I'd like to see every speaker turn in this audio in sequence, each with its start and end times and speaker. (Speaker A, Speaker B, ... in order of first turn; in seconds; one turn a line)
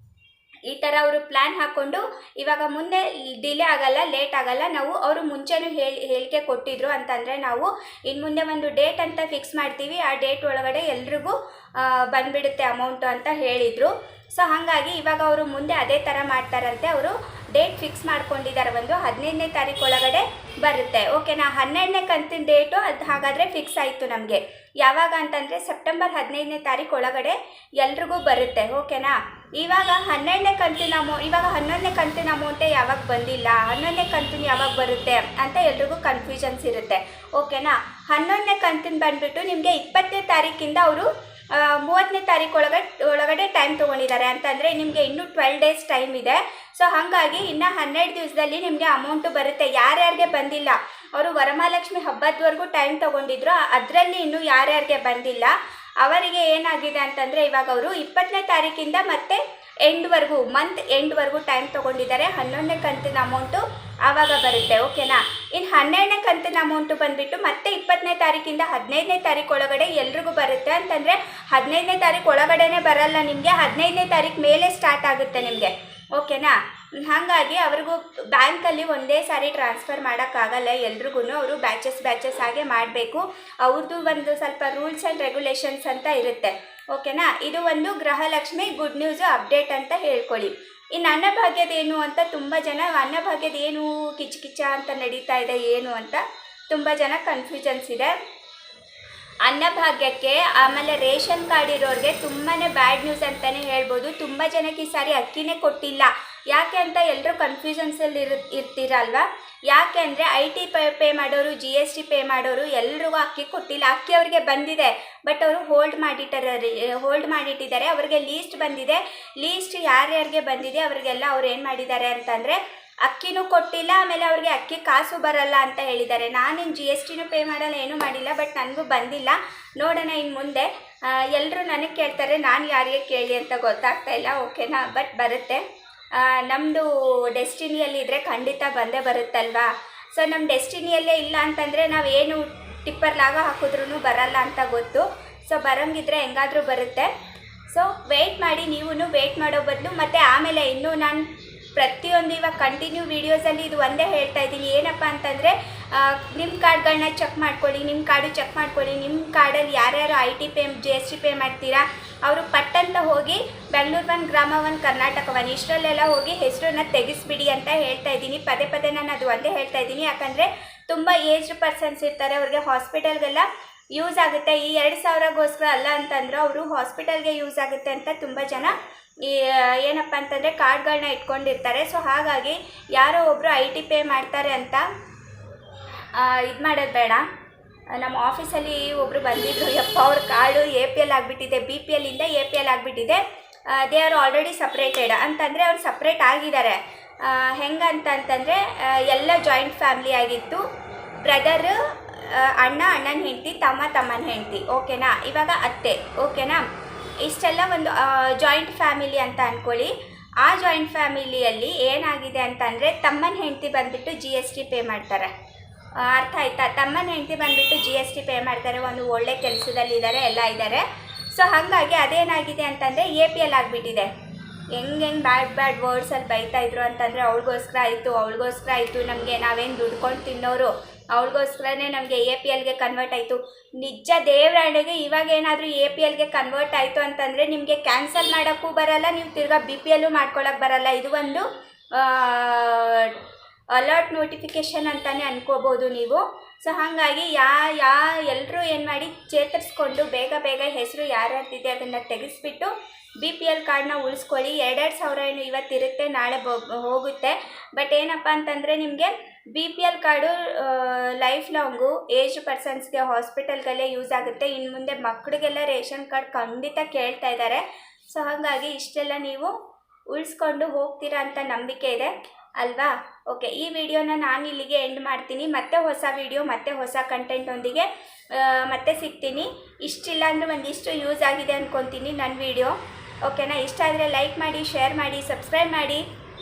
Speaker A: 0.7-98.2
Speaker A: 99.4-147.1
Speaker A: 147.7-184.8
Speaker A: 186.1-187.2
Speaker A: 187.9-200.6
Speaker A: 201.2-206.7
Speaker A: 207.2-215.3
Speaker A: 216.0-224.1
Speaker A: 224.7-243.2
Speaker A: 243.7-269.5
Speaker A: 270.1-286.0